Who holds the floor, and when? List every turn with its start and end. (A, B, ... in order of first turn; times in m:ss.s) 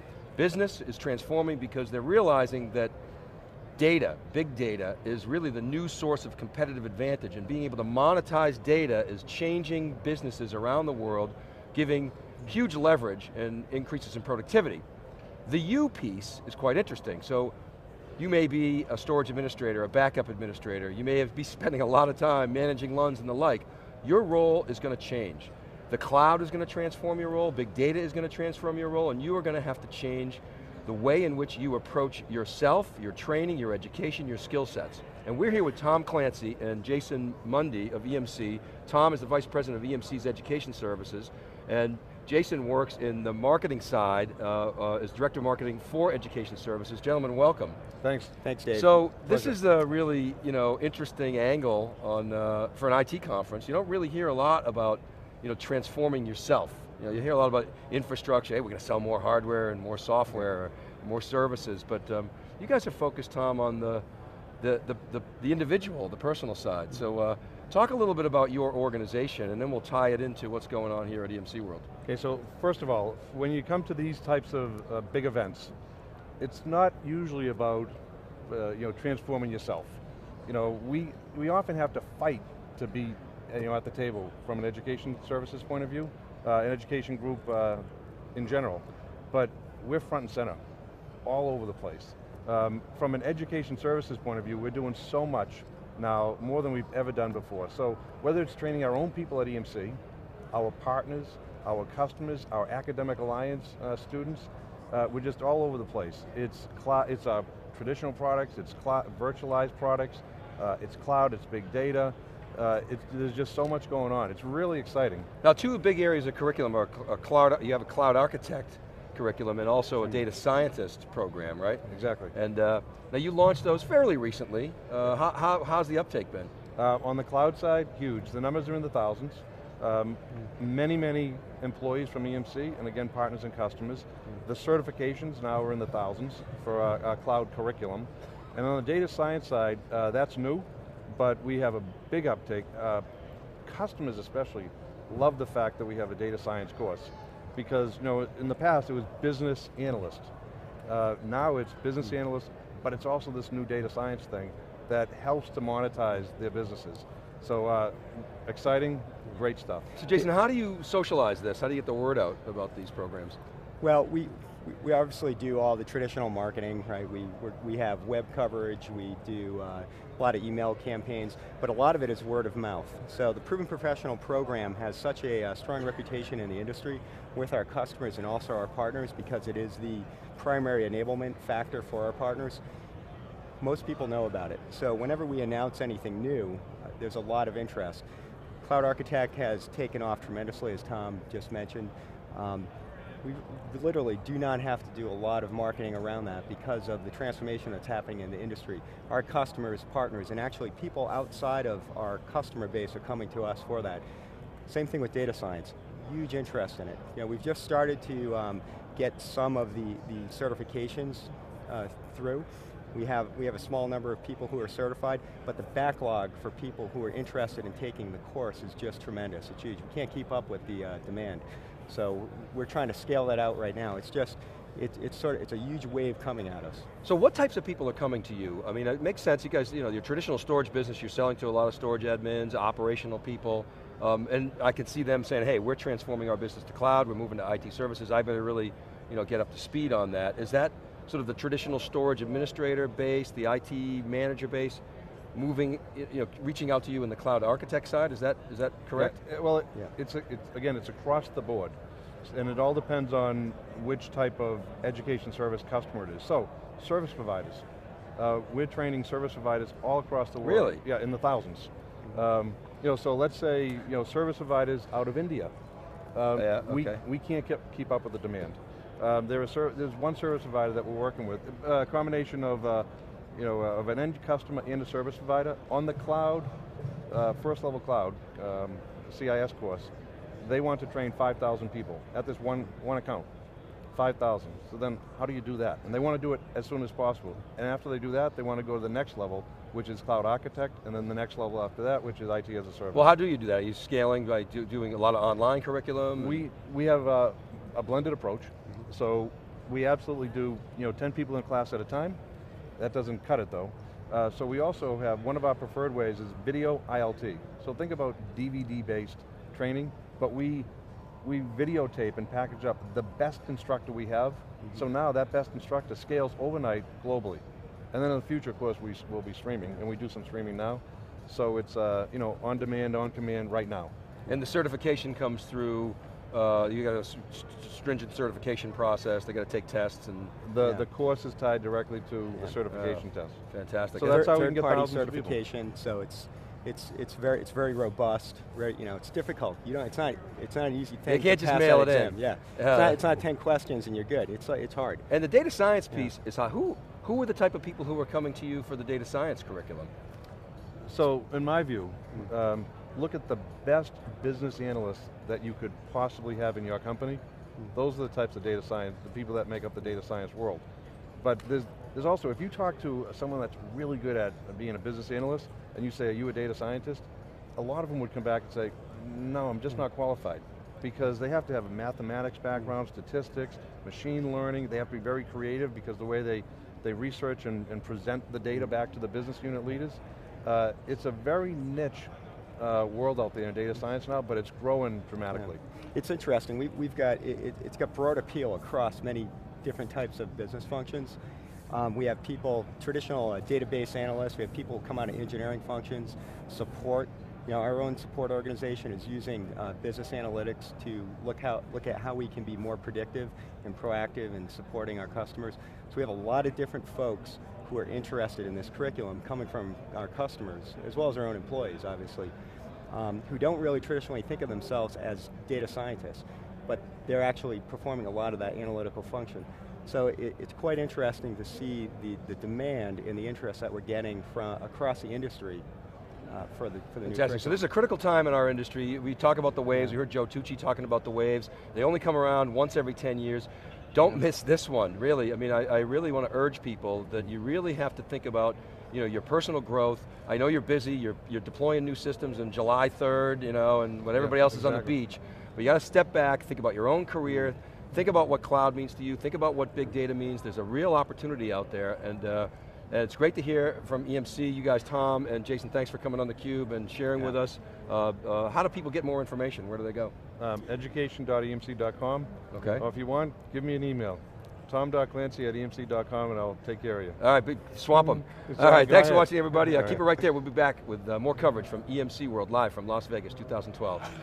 0:00.4-0:02.9 A
0:03.8-0:14.8 A
0:15.5-0:17.5 A
0:18.2-0:47.8 A
0:48.0-0:48.3 B
0:48.4-0:49.6 C
0:48.7-1:04.0 A
1:04.6-1:11.9 A
1:12.1-1:15.7 B
1:16.4-1:17.9 B
1:18.5-1:30.6 B
1:31.2-1:40.0 B
1:40.5-1:55.3 B
1:55.4-2:06.5 A
2:01.9-2:02.3 B
2:06.8-2:23.0 B
2:23.6-2:30.3 B
2:30.9-2:39.9 B
2:40.0-2:43.4 A
2:43.8-3:02.6 C
3:03.6-3:08.0 C
3:08.6-3:12.7 C
3:13.2-3:24.0 C
3:24.7-3:46.8 C
3:47.0-4:04.8 A
4:05.3-4:09.2 A
4:09.0-4:17.6 B
4:18.2-4:25.5 B
4:20.4-4:20.8 A
4:26.2-4:36.5 B
4:26.4-4:27.0 A
4:37.1-4:43.3 B
4:43.9-4:53.1 B
4:52.9-4:56.4 A
4:56.2-5:02.2 B
5:02.8-5:10.7 B
5:11.2-5:23.9 B
5:24.3-5:30.3 A
5:30.4-5:33.4 B
5:30.6-5:30.9 C
5:32.7-5:34.4 A
5:34.0-5:35.4 B
5:34.1-5:45.0 C
5:41.1-5:43.0 A
5:45.1-5:49.9 A
5:50.9-5:57.2 B
5:57.7-6:00.6 B
6:01.2-6:25.6 B
6:25.3-6:31.2 C
6:31.7-6:52.3 C
6:52.9-7:05.6 C
7:06.3-7:07.6 C
7:07.1-7:40.1 A
7:24.2-7:24.9 B
7:40.4-7:47.2 B
7:42.5-7:42.8 A
7:47.2-7:54.1 A
7:48.2-7:50.0 B